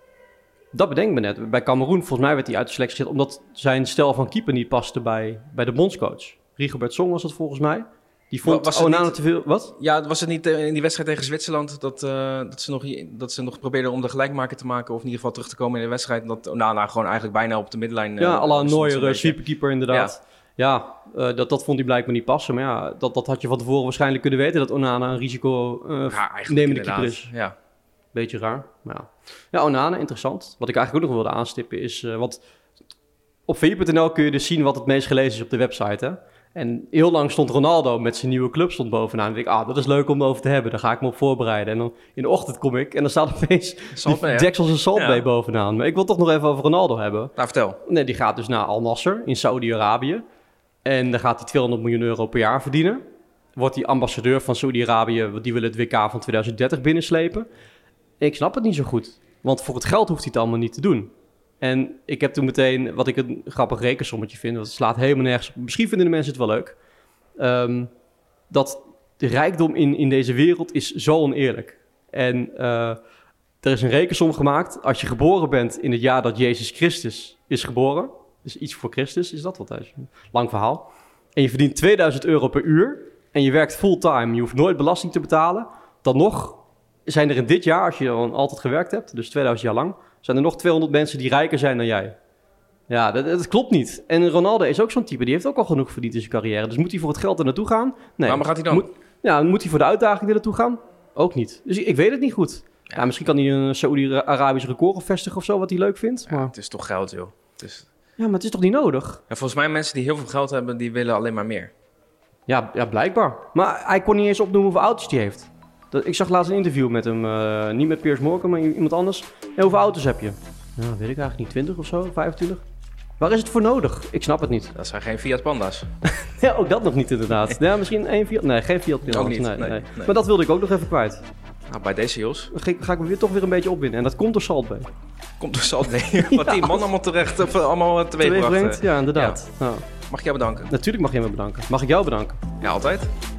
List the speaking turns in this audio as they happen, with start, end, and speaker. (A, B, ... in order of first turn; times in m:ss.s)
0:00.7-0:09.7 A
0:08.4-0:09.2 B
0:09.7-0:20.1 B
0:18.2-0:27.3 A
0:26.1-0:27.6 B
0:28.1-0:32.4 A
0:33.5-0:47.3 A
0:43.9-0:45.2 B
0:47.4-0:47.8 B
0:47.8-0:50.2 A
0:50.8-0:53.0 A
0:53.6-0:57.5 A
0:58.2-1:06.8 A
1:07.4-1:07.9 A
1:08.5-1:13.0 A
1:13.6-1:32.1 A
1:32.9-1:46.5 A
1:38.2-1:38.9 B
1:46.2-1:47.9 B
1:48.2-1:49.2 A
1:49.3-1:51.7 B
1:52.5-2:02.6 A
2:03.2-2:04.7 A
2:04.7-2:05.9 B
2:06.0-2:11.2 A
2:09.0-2:10.1 B
2:11.7-2:12.5 B
2:12.5-2:14.9 A
2:15.4-2:19.4 B
2:16.2-2:16.8 A
2:18.2-2:19.8 A
2:20.1-2:20.7 B
2:20.7-2:22.4 A
2:22.6-2:23.1 B